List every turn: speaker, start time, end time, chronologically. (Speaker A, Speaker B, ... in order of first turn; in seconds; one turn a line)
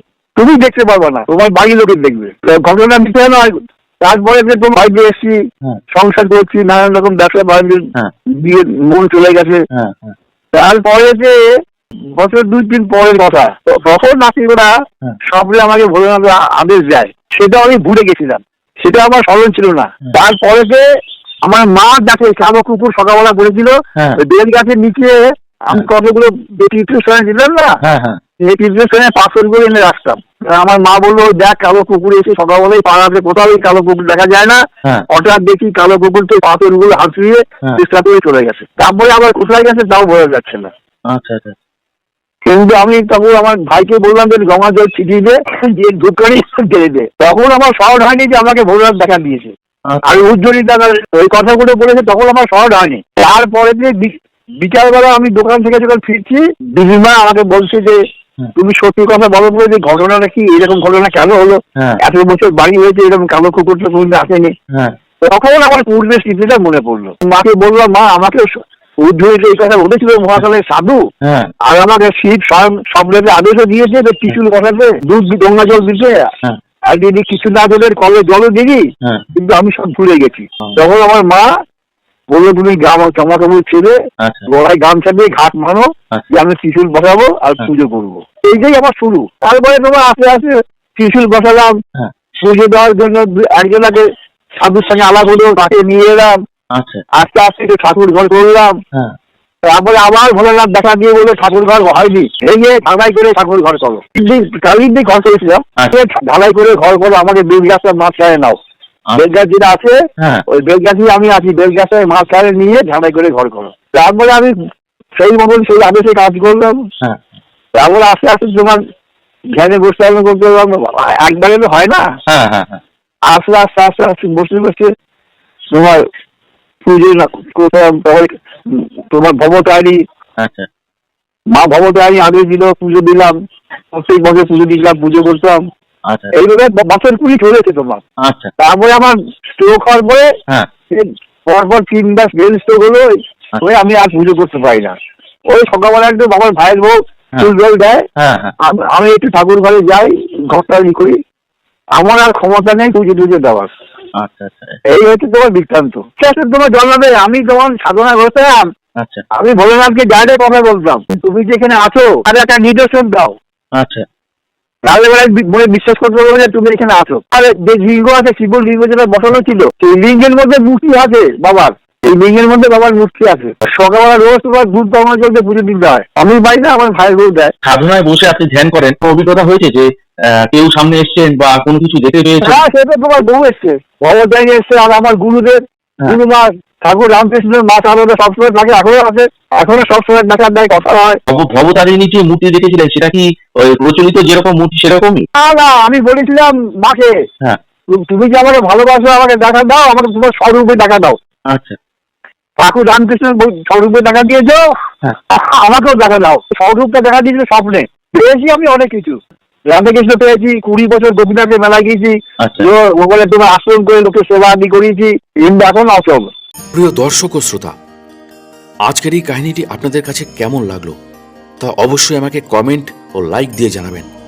Speaker A: 0.3-5.4
Speaker A: 5.9-7.8
Speaker A: 8.4-9.6
Speaker B: 9.7-10.1
Speaker A: 10.5-11.4
Speaker A: 12.1-14.7
Speaker A: 15.3-20.8
Speaker A: 21.4-27.8
Speaker B: 27.8-28.2
Speaker A: 28.4-40.7
Speaker B: 41.1-41.6
Speaker A: 42.4-49.5
Speaker B: 49.9-50.2
Speaker A: 50.0-58.0
Speaker A: 58.5-64.5
Speaker B: 64.7-65.0
Speaker A: 65.2-68.5
Speaker A: 69.0-71.0
Speaker B: 71.2-71.5
Speaker A: 71.7-76.3
Speaker A: 76.9-81.5
Speaker A: 82.3-91.8
Speaker B: 84.2-84.5
Speaker A: 92.4-96.4
Speaker B: 96.7-97.0
Speaker A: 97.1-98.8
Speaker A: 99.7-108.6
Speaker A: 109.2-114.5
Speaker A: 115.2-116.8
Speaker A: 117.8-118.8
Speaker A: 119.5-122.1
Speaker B: 122.3-122.8
Speaker A: 123.3-124.9
Speaker A: 125.7-126.0
Speaker A: 126.8-130.0
Speaker B: 130.4-130.7
Speaker A: 131.5-133.4
Speaker A: 133.9-135.6
Speaker B: 136.1-136.3
Speaker A: 136.3-138.0
Speaker B: 138.2-138.5
Speaker A: 138.6-140.3
Speaker A: 140.9-145.0
Speaker A: 145.5-148.0
Speaker B: 148.2-148.5
Speaker A: 148.6-151.2
Speaker A: 151.9-153.7
Speaker B: 154.2-154.8
Speaker A: 154.9-158.7
Speaker B: 159.0-159.2
Speaker A: 159.3-163.3
Speaker B: 163.7-164.0
Speaker A: 164.8-177.5
Speaker B: 177.6-182.6
Speaker A: 182.4-191.2
Speaker B: 191.3-195.2
Speaker A: 195.3-197.1
Speaker A: 197.9-201.2
Speaker B: 201.5-201.8
Speaker A: 202.6-204.7
Speaker A: 205.3-216.3
Speaker B: 212.4-212.7
Speaker C: 216.7-217.7
Speaker C: 218.9-220.9
Speaker C: 221.6-224.1